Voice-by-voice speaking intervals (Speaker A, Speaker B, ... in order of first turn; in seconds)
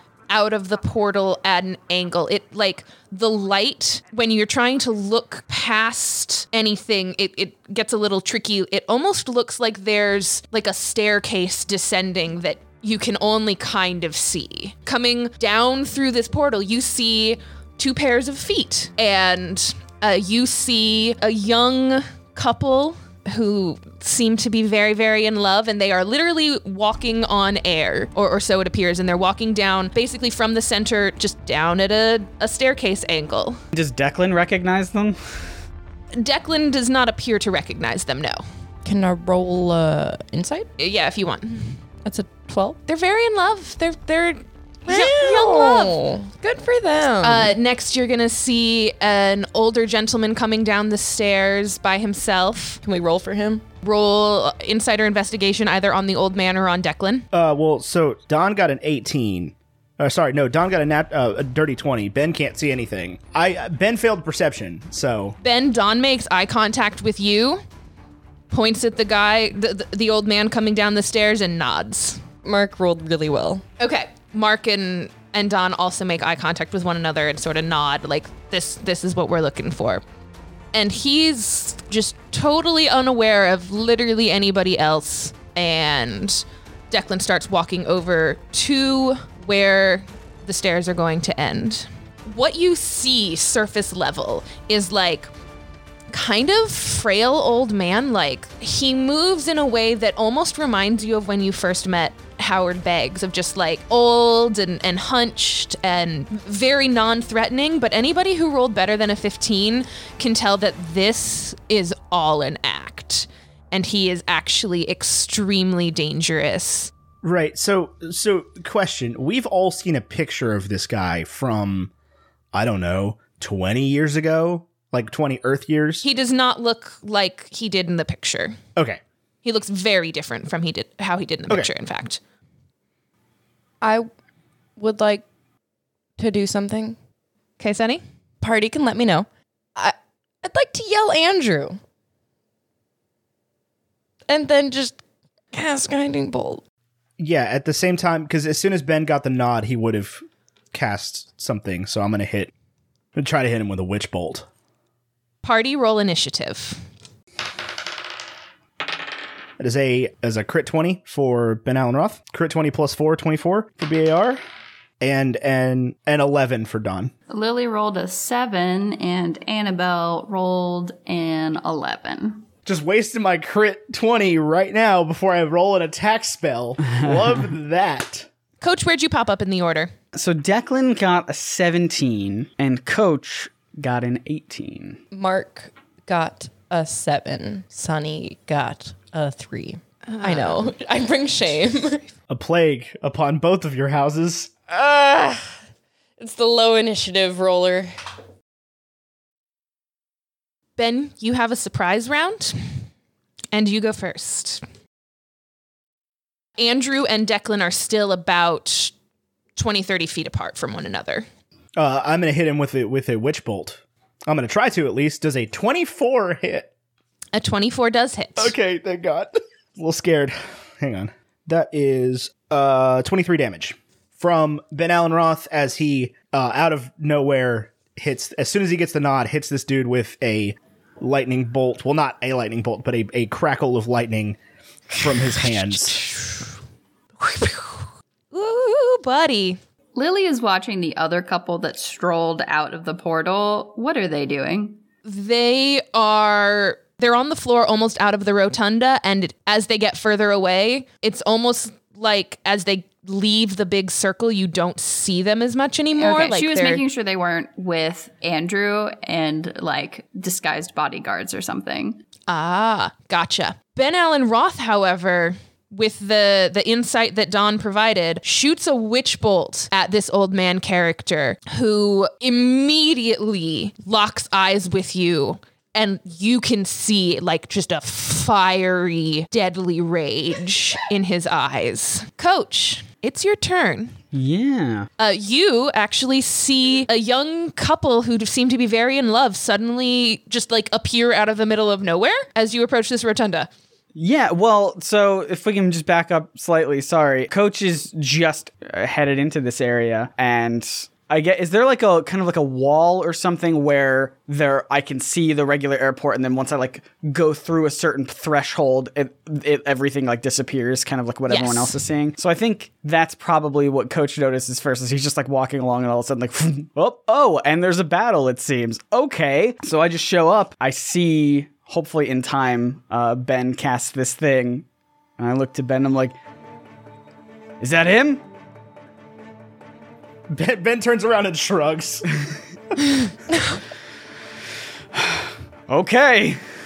Speaker A: 0.3-33.6, 36.2-38.4, 40.8-41.8, 42.9-46.0, 47.2-52.8, 53.8-57.3, 65.4-67.6, 68.5-72.2, 73.8-80.0, 80.7-95.3, 96.1-116.9, 126.0-128.6, 129.4-132.2, 137.6-138.0, 155.4-156.8, 178.6-179.9, 190.1-190.7, 200.8-202.6, 203.5-204.6, 206.6-208.9, 209.6-211.3, 217.3-218.5, 237.2-239.6, 245.1-256.8, 262.3-284.0, 285.0-293.5, 311.3-311.8
Speaker B: 33.7-35.2, 180.1-185.0, 284.1-284.9, 293.9-324.6, 325.2-326.1, 327.6-328.2, 334.9-336.4
Speaker C: 38.9-40.7, 42.0-42.8, 44.9-47.5, 52.8-53.6, 72.4-73.6, 133.8-134.1, 134.8-135.2, 136.2-137.0, 138.4-141.8, 144.3-145.0, 145.5-146.6, 185.1-192.1, 194.7-195.5, 196.2-197.9
Speaker D: 57.3-65.4, 117.2-121.9, 122.5-126.0, 147.2-152.5, 153.2-154.5, 159.6-164.4, 165.0-167.1, 172.7-178.3, 192.3-194.5, 211.8-216.7, 218.4-234.4, 235.0-236.1, 330.3-332.1
Speaker E: 167.3-172.5, 239.9-244.8, 255.9-262.0